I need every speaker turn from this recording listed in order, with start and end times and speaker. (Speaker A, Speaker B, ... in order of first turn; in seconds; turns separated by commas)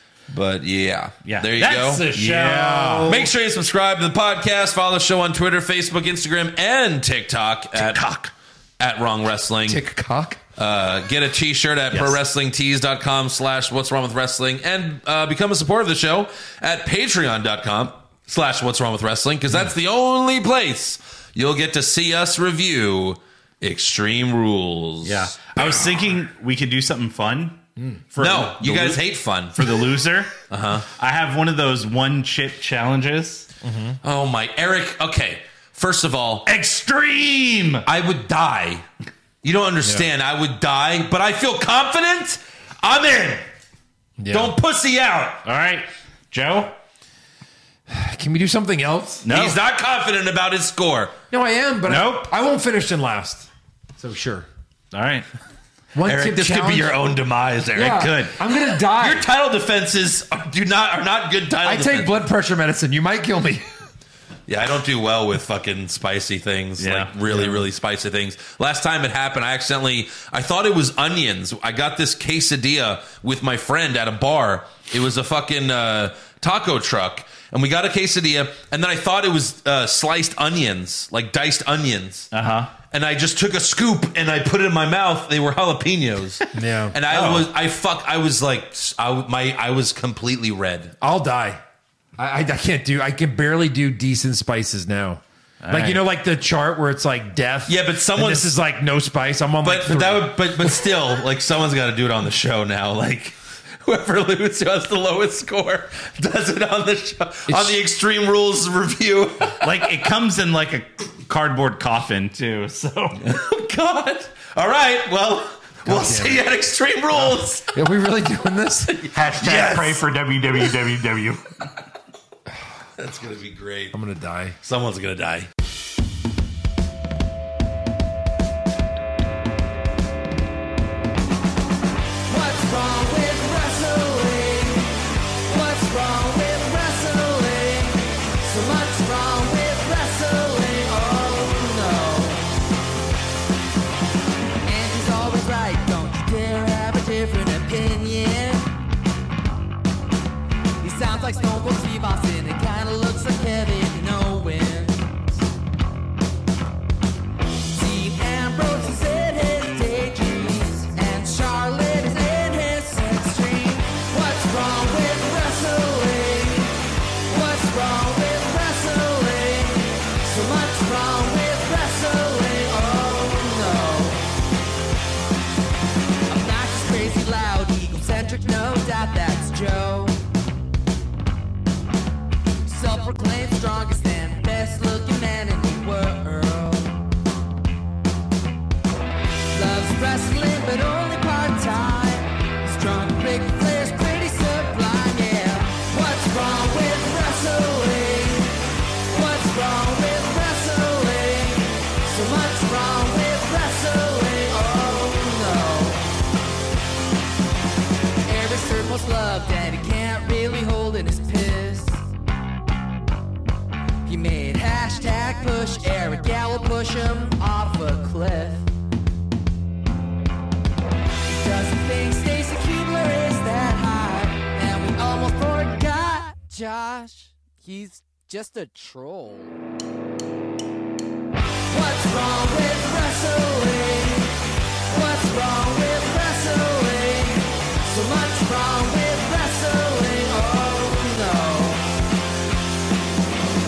Speaker A: 0.3-2.5, Speaker B: 1.2-3.3, Speaker C: 2.2-3.2, Speaker A: 3.0-9.8, Speaker C: 9.7-10.4, Speaker A: 10.6-25.9, Speaker B: 25.0-27.6, Speaker C: 27.8-28.0, Speaker B: 28.1-30.3, Speaker A: 28.2-29.7, Speaker A: 30.5-30.9, Speaker B: 30.9-33.5, Speaker C: 33.6-34.0, Speaker A: 34.0-36.5, Speaker B: 36.5-37.9, Speaker A: 37.9-38.9, Speaker A: 39.4-43.5, Speaker C: 44.2-44.5, Speaker A: 44.3-45.4, Speaker B: 45.4-46.8, Speaker C: 47.9-49.3, Speaker B: 49.2-49.6, Speaker A: 49.3-51.1, Speaker C: 51.3-54.5, Speaker B: 51.9-52.3, Speaker B: 54.9-55.3, Speaker C: 56.0-57.0, Speaker A: 56.0-62.1, Speaker C: 57.8-59.3, Speaker B: 57.8-58.3, Speaker C: 61.6-63.7, Speaker A: 64.5-82.3, Speaker B: 66.8-67.1, Speaker C: 67.3-67.6, Speaker B: 82.3-82.7, Speaker A: 82.9-91.0, Speaker C: 86.5-87.0, Speaker B: 87.1-87.5, Speaker C: 91.0-91.6, Speaker C: 92.2-100.7, Speaker B: 95.6-96.0, Speaker A: 97.7-98.5, Speaker A: 99.6-109.9, Speaker C: 107.5-107.8, Speaker B: 109.6-113.2, Speaker A: 113.2-117.7, Speaker C: 115.9-116.5, Speaker C: 117.2-119.1, Speaker A: 119.0-120.0, Speaker B: 119.1-121.5, Speaker A: 123.0-123.9, Speaker C: 123.9-124.6, Speaker A: 124.6-125.5, Speaker D: 132.3-142.6, Speaker D: 144.7-148.7, Speaker D: 150.8-155.1, Speaker D: 157.7-174.2, Speaker D: 176.3-180.2, Speaker D: 182.6-187.0, Speaker D: 189.5-206.1, Speaker D: 208.3-212.1, Speaker D: 214.1-218.7, Speaker D: 221.2-229.6, Speaker D: 231.7-234.4, Speaker D: 234.9-241.8